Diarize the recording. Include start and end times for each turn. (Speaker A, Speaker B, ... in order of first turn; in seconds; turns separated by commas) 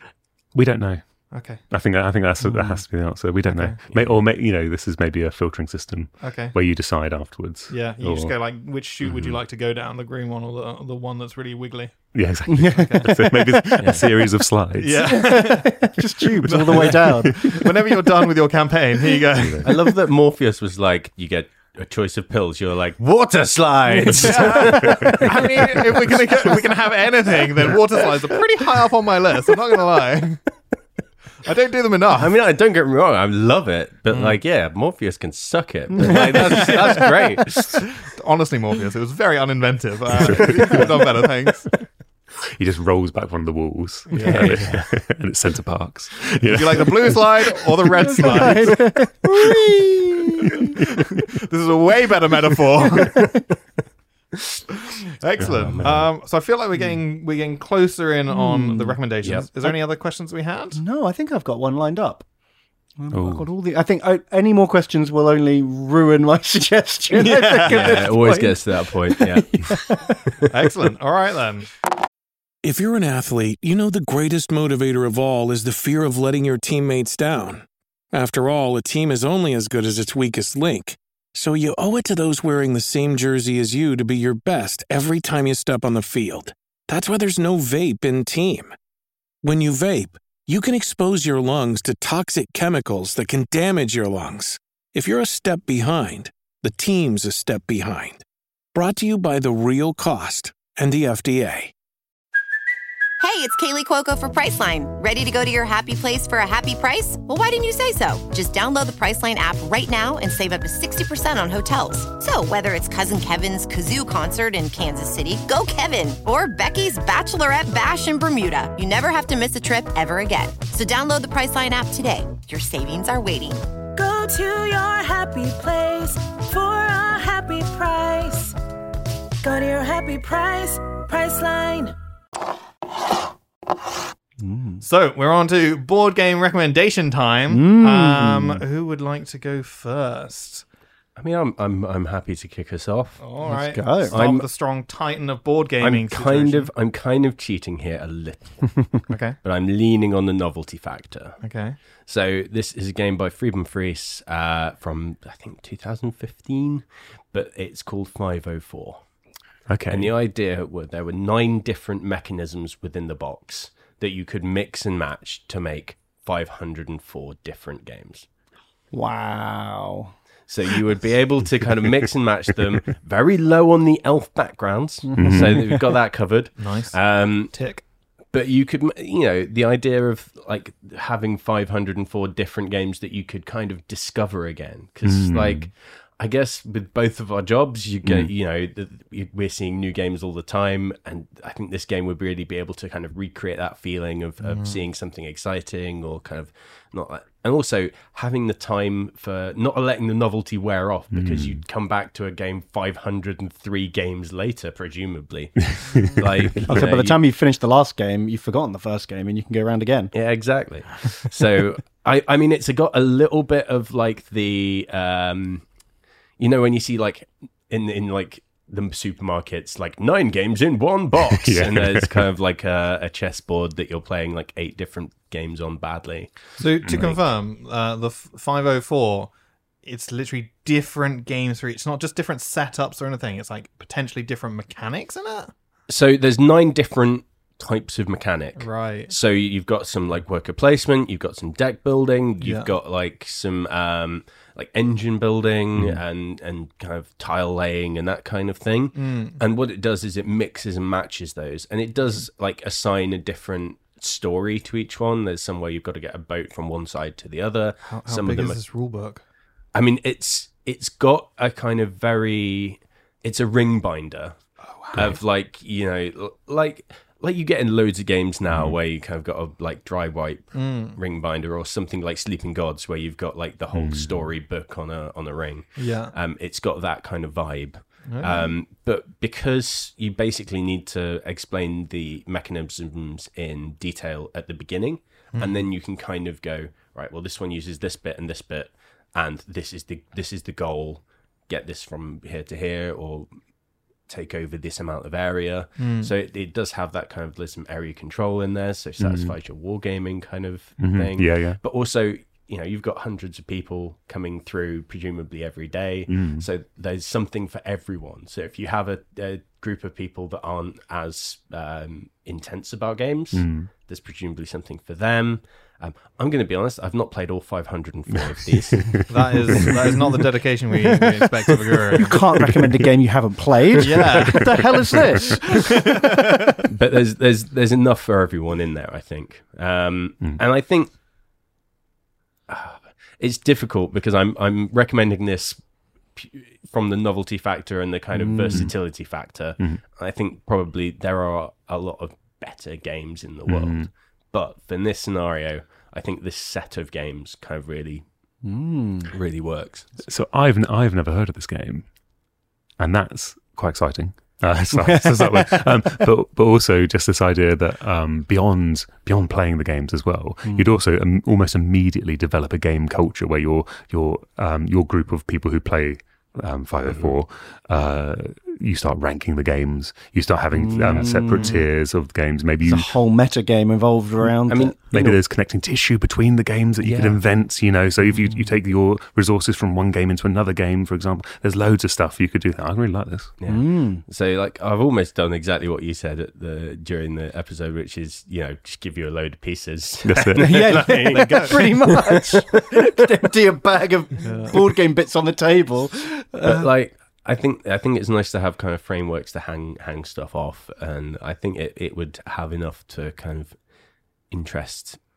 Speaker A: 0.5-8.4, Speaker B: 1.3-1.6, Speaker C: 2.4-2.9, Speaker B: 3.5-3.8, Speaker B: 6.2-6.6, Speaker B: 7.7-12.2, Speaker A: 12.1-15.2, Speaker C: 12.5-14.0, Speaker B: 12.8-13.1, Speaker B: 14.8-15.9, Speaker C: 15.0-17.6, Speaker A: 16.4-17.4, Speaker B: 16.5-19.7, Speaker D: 19.6-26.2, Speaker B: 24.1-30.4, Speaker B: 31.4-32.3, Speaker D: 32.2-37.8, Speaker B: 34.1-34.4, Speaker B: 36.1-37.0, Speaker B: 38.2-41.8, Speaker A: 40.3-40.8, Speaker A: 42.6-48.8, Speaker B: 44.1-44.5, Speaker D: 44.2-44.9, Speaker B: 46.5-48.9, Speaker C: 48.2-50.5, Speaker B: 51.3-53.2, Speaker B: 55.2-60.8, Speaker A: 55.4-55.9, Speaker D: 55.4-56.1, Speaker C: 58.3-59.0, Speaker D: 59.2-59.5, Speaker C: 60.7-62.3, Speaker C: 63.0-70.0, Speaker A: 63.1-63.5, Speaker B: 67.1-68.1, Speaker D: 67.7-69.8, Speaker B: 70.5-71.7, Speaker E: 72.6-88.7, Speaker E: 89.4-101.7, Speaker F: 103.2-123.7, Speaker G: 124.0-128.6, Speaker G: 129.4-131.9, Speaker C: 134.4-134.8, Speaker B: 134.8-140.7, Speaker C: 137.5-138.6, Speaker D: 141.2-143.5, Speaker B: 143.2-146.7, Speaker C: 143.4-144.4, Speaker D: 144.1-144.4, Speaker D: 145.8-151.4, Speaker B: 149.1-149.4, Speaker B: 151.4-151.8, Speaker D: 152.0-159.1, Speaker A: 159.7-160.1, Speaker D: 159.9-168.3, Speaker C: 168.9-170.1, Speaker D: 170.5-177.6, Speaker C: 175.0-175.9, Speaker A: 175.2-175.6, Speaker B: 176.6-177.8, Speaker D: 178.3-207.2, Speaker A: 185.0-185.7, Speaker A: 188.0-188.3, Speaker B: 194.4-194.8, Speaker A: 201.1-201.6, Speaker A: 205.7-206.8, Speaker B: 206.0-206.2, Speaker C: 206.7-210.1, Speaker D: 210.1-215.7, Speaker D: 216.4-227.2, Speaker A: 221.3-222.2, Speaker B: 226.6-229.3, Speaker A: 226.8-227.2, Speaker B: 229.8-235.5, Speaker D: 235.9-258.6, Speaker B: 238.6-239.1, Speaker B: 242.4-242.7, Speaker B: 248.9-249.4, Speaker B: 257.8-259.2, Speaker D: 259.7-264.4, Speaker B: 264.6-265.2, Speaker D: 264.9-293.5, Speaker A: 268.5-268.8, Speaker B: 270.5-271.0, Speaker A: 273.7-274.3, Speaker B: 275.8-276.1, Speaker B: 278.1-278.5, Speaker B: 285.3-285.7, Speaker D: 294.0-319.7, Speaker B: 295.8-296.1, Speaker A: 299.0-299.3, Speaker A: 300.8-301.6, Speaker A: 306.1-306.5, Speaker A: 313.3-313.7, Speaker B: 319.1-322.2, Speaker C: 322.1-325.8, Speaker B: 323.8-324.6, Speaker D: 326.7-330.9, Speaker D: 332.5-348.1, Speaker C: 338.1-338.7, Speaker A: 338.5-339.8, Speaker A: 343.5-343.9, Speaker C: 348.4-349.1, Speaker D: 349.1-349.9, Speaker A: 350.1-351.9, Speaker A: 352.8-372.9, Speaker C: 354.7-355.7, Speaker C: 360.5-360.7, Speaker C: 370.5-371.7, Speaker C: 372.6-375.2, Speaker D: 374.5-374.8, Speaker A: 374.9-383.4, Speaker D: 376.8-377.2, Speaker D: 383.4-392.6, Speaker C: 383.5-384.0, Speaker A: 390.0-391.1, Speaker C: 390.4-396.7, Speaker B: 391.1-391.5, Speaker B: 394.2-394.6, Speaker D: 396.4-403.6, Speaker D: 404.3-405.0